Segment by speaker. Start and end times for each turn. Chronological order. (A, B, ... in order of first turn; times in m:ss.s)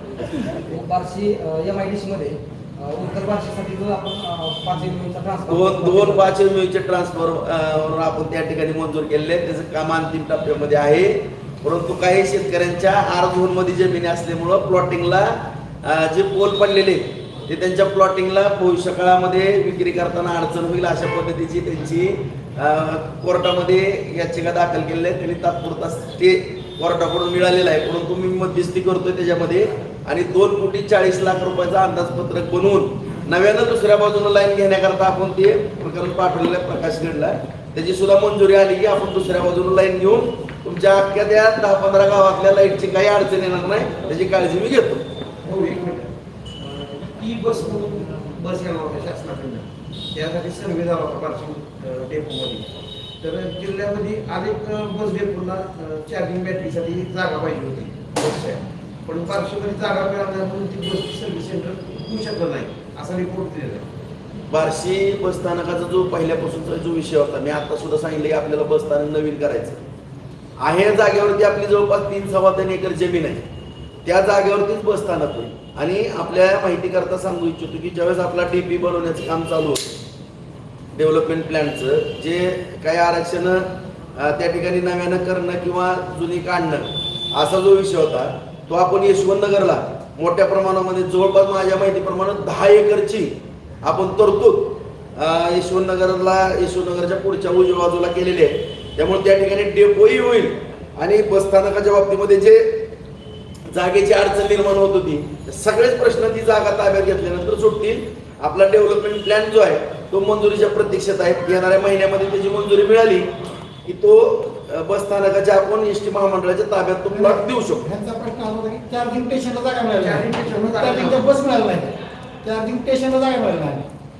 0:00.5-0:06.3 A
0:05.5-0:45.0 B
0:45.4-0:52.7 C
0:53.2-1:03.9 C
1:04.5-1:09.8 B
1:10.6-1:13.4 B
1:14.0-1:20.0 B
1:20.9-1:42.9 B
1:43.7-1:53.3 B
1:53.8-1:57.8 B
1:57.1-2:03.9 D
2:00.0-2:01.4 C